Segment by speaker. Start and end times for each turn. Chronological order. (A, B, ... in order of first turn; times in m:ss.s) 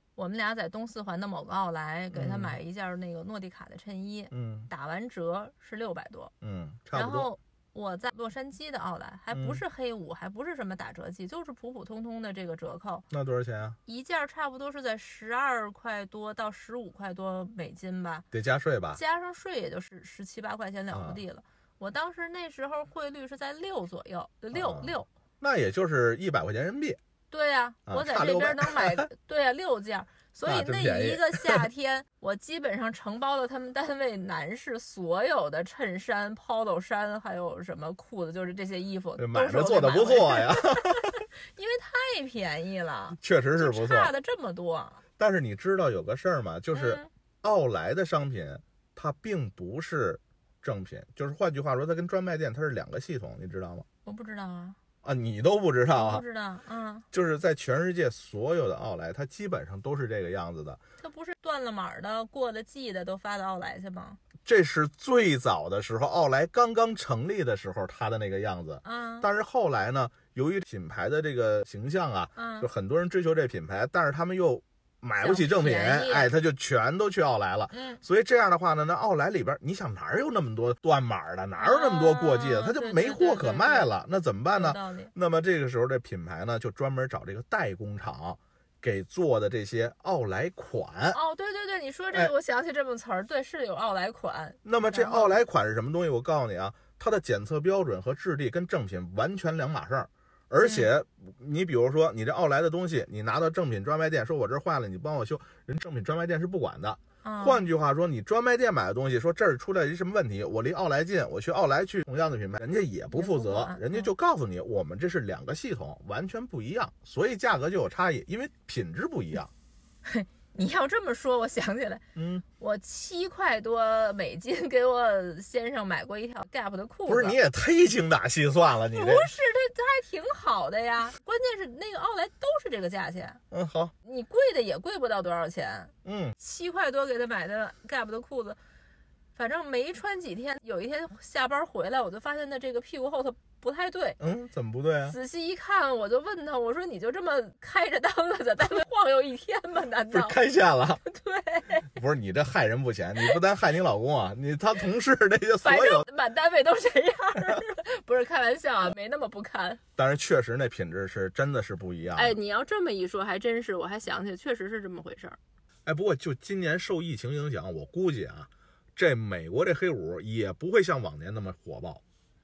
0:00.2-0:06.3 A
0:02.1-0:02.6 B
0:04.3-0:04.7 B
0:06.4-0:07.3 B
0:06.9-0:13.1 A
0:09.3-0:09.6 B
0:13.1-0:13.8 B
0:13.9-0:18.3 A
0:18.3-0:19.0 B
0:18.9-0:25.1 A
0:20.9-0:21.2 B
0:24.5-0:27.0 B
0:27.3-0:45.0 A
0:27.9-0:29.1 B
0:30.4-0:31.7 B
0:39.2-0:41.2 B
0:43.2-0:44.1 B
0:45.2-0:53.9 B
0:46.7-0:47.1 A
0:54.0-0:54.8 A
0:55.0-0:56.2 B
0:55.9-0:57.1 A
0:57.1-1:00.8 B
1:01.0-1:04.2 A
1:04.5-1:31.2 B
1:08.8-1:09.3 A
1:12.4-1:12.7 A
1:15.2-1:16.3 A
1:17.7-1:18.0 A
1:21.6-1:23.9 A
1:24.5-1:25.1 A
1:31.1-1:35.4 A
1:34.6-1:59.5 B
1:40.6-1:40.9 A
1:47.2-1:47.7 A
1:53.1-1:54.1 A
2:00.0-2:02.0 A
2:02.2-2:02.4 B
2:02.6-2:07.4 A
2:07.1-2:09.3 B
2:08.9-2:13.4 A
2:13.5-2:13.9 B
2:14.0-2:18.6 A
2:16.0-2:16.4 B
2:19.4-2:24.2 A
2:24.2-2:25.2 B
2:25.0-2:30.4 A
2:30.1-2:31.0 B
2:31.0-2:31.9 A
2:31.9-2:36.1 B
2:35.6-2:39.8 A
2:40.0-2:42.4 B
2:42.2-2:45.4 A
2:45.9-2:52.0 B